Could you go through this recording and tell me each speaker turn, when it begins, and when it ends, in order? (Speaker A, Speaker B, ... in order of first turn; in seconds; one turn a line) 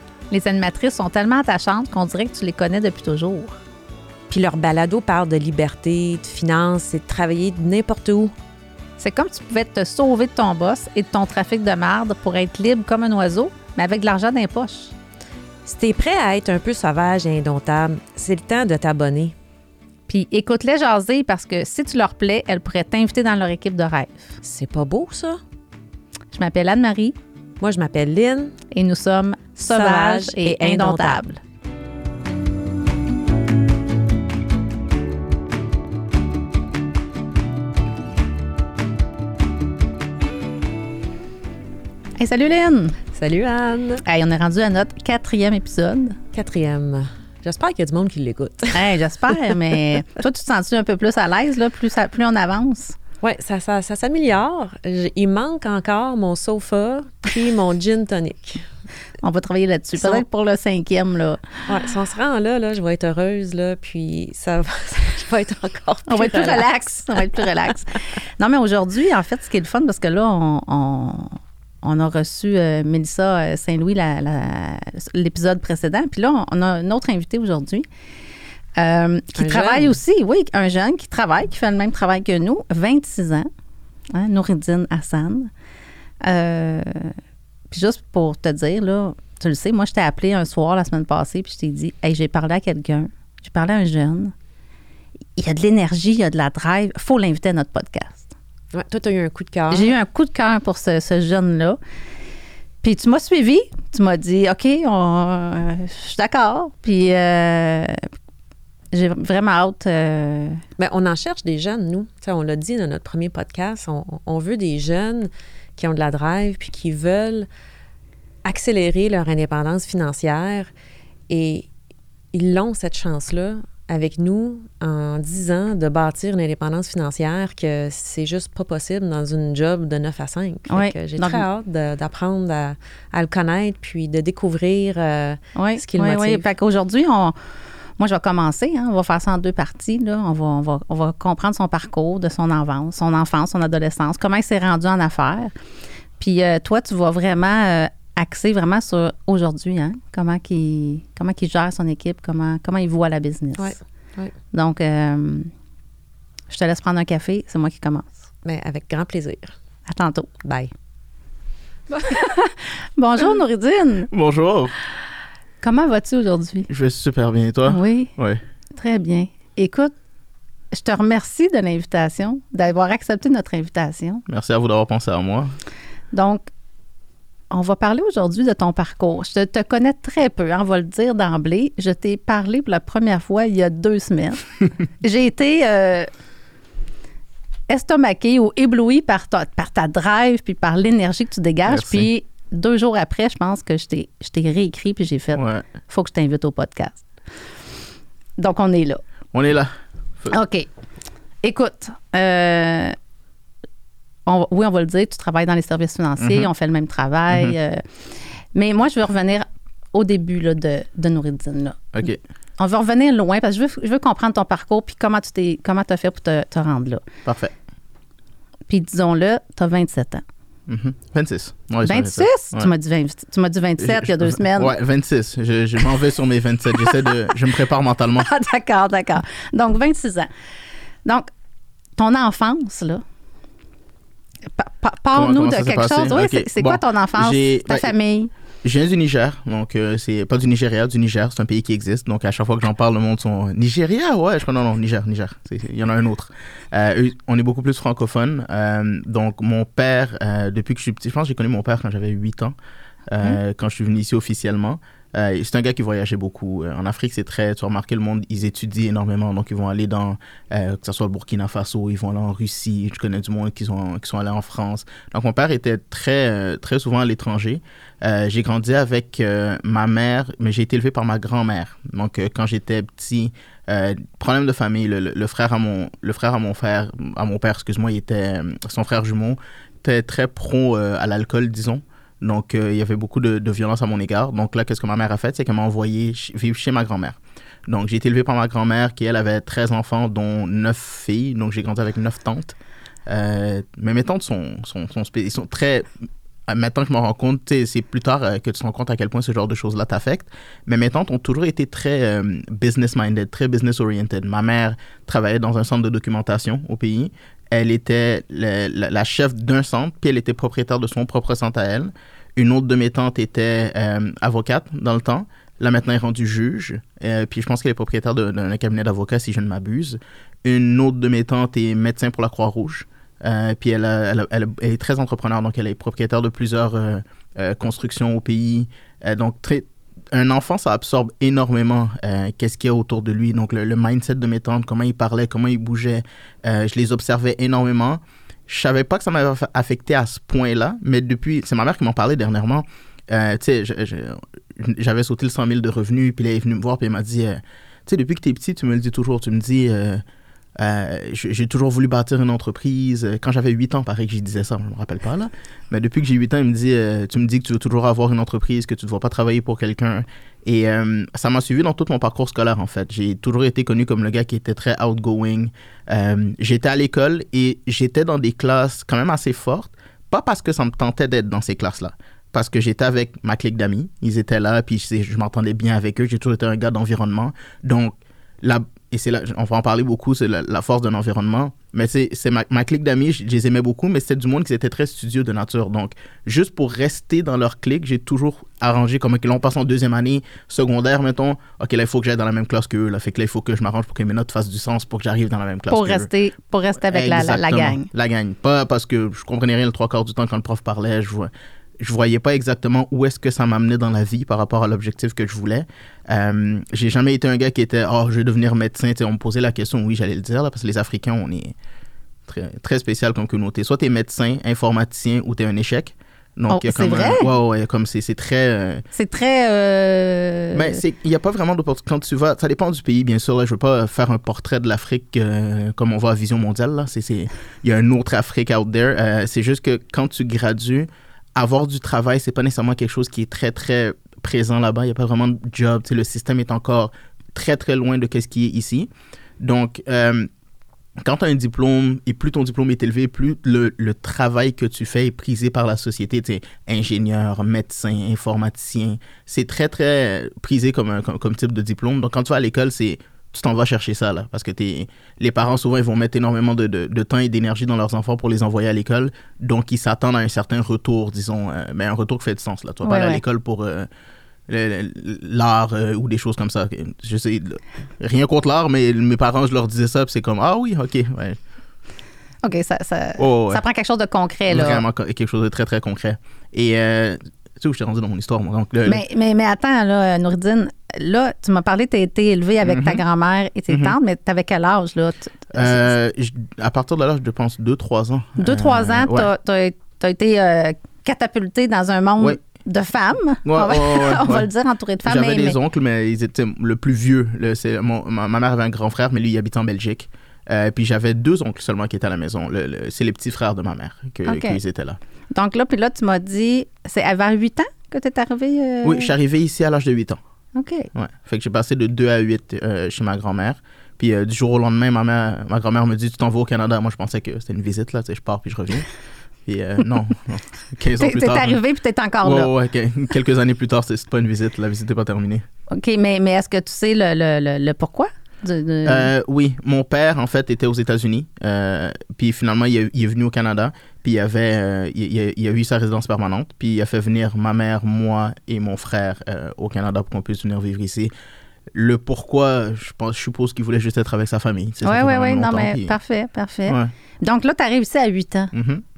Speaker A: 0.3-3.6
Speaker B: 4.3-8.3
Speaker A: 9.0-14.9
Speaker B: 15.7-19.3
Speaker A: 20.1-24.4
Speaker B: 24.4-25.4
Speaker A: 26.3-27.1
Speaker B: 27.6-28.5
Speaker A: 28.7-31.4
Speaker B: 29.6-31.2
Speaker A: 42.2-43.0
Speaker B: 43.1-44.0
Speaker A: 44.0-46.2
Speaker B: 46.3-48.9
Speaker A: 48.7-53.0
Speaker B: 53.2-58.6
Speaker A: 59.2-61.5
Speaker B: 61.7-67.4
Speaker A: 66.1-77.9
Speaker A: 78.8-83.5
Speaker B: 79.3-80.0
Speaker A: 84.1-85.5
Speaker A: 86.2-87.1
Speaker A: 87.7-94.3
Speaker A: 95.3-98.3
Speaker B: 98.7-99.9
Speaker A: 99.7-101.8
Speaker A: 102.8-108.0
Speaker A: 108.9-110.6
Speaker B: 110.8-117.5
Speaker B: 118.4-120.7
Speaker B: 121.3-121.7
Speaker B: 122.3-136.4
Speaker A: 130.7-131.4
Speaker A: 135.6-137.3
Speaker A: 138.0-145.5
Speaker A: 146.2-153.7
Speaker B: 153.6-154.3
Speaker A: 154.5-155.5
Speaker A: 156.5-158.1
Speaker B: 158.4-159.5
Speaker A: 159.9-160.3
Speaker B: 160.4-160.7
Speaker A: 161.9-164.1
Speaker C: 164.1-164.7
Speaker A: 165.6-166.7
Speaker C: 166.7-168.4
Speaker A: 167.7-168.1
Speaker A: 168.7-169.9
Speaker A: 170.7-174.2
Speaker C: 174.3-175.5
Speaker A: 176.1-176.5
Speaker A: 177.5-184.4
Speaker A: 185.0-186.1
Speaker A: 187.7-197.0
Speaker C: 191.7-192.1
Speaker C: 195.3-195.7
Speaker A: 198.4-199.0
Speaker C: 199.3-200.3
Speaker A: 200.3-200.7
Speaker A: 201.4-202.9
Speaker A: 204.2-207.9
Speaker C: 206.2-206.5
Speaker A: 208.5-211.9
Speaker C: 211.9-212.2
Speaker A: 212.6-217.1
Speaker C: 217.2-217.5
Speaker A: 218.7-220.2
Speaker C: 220.7-222.7
Speaker A: 221.8-224.7
Speaker C: 223.8-228.3
Speaker A: 228.2-230.3
Speaker A: 232.0-233.0
Speaker A: 234.5-238.3
Speaker C: 235.1-237.9
Speaker C: 238.6-252.6
Speaker C: 253.1-295.9
Speaker C: 296.5-350.0
Speaker C: 350.6-396.1
Speaker A: 395.7-397.9
Speaker C: 396.8-411.5
Speaker C: 412.3-418.8
Speaker A: 416.5-417.3
Speaker A: 418.9-420.8
Speaker C: 420.5-440.3
Speaker C: 441.0-463.9
Speaker A: 462.8-463.2
Speaker C: 464.5-471.4
Speaker A: 472.4-474.8
Speaker C: 473.2-473.6
Speaker C: 474.5-479.0
Speaker A: 478.9-485.9
Speaker C: 482.6-483.0
Speaker C: 483.7-483.9
Speaker C: 485.5-489.3
Speaker A: 488.4-495.6
Speaker C: 493.4-494.5
Speaker C: 495.0-505.0
Speaker A: 504.2-504.6
Speaker A: 505.3-509.1
Speaker C: 508.8-510.2
Speaker A: 510.5-510.9
Speaker C: 510.9-518.9
Speaker C: 519.5-521.6
Speaker A: 521.0-522.5
Speaker C: 522.2-525.4
Speaker A: 525.7-529.1
Speaker C: 528.8-541.1
Speaker C: 541.7-545.9
Speaker A: 544.8-548.5
Speaker C: 546.7-546.9
Speaker C: 548.5-548.8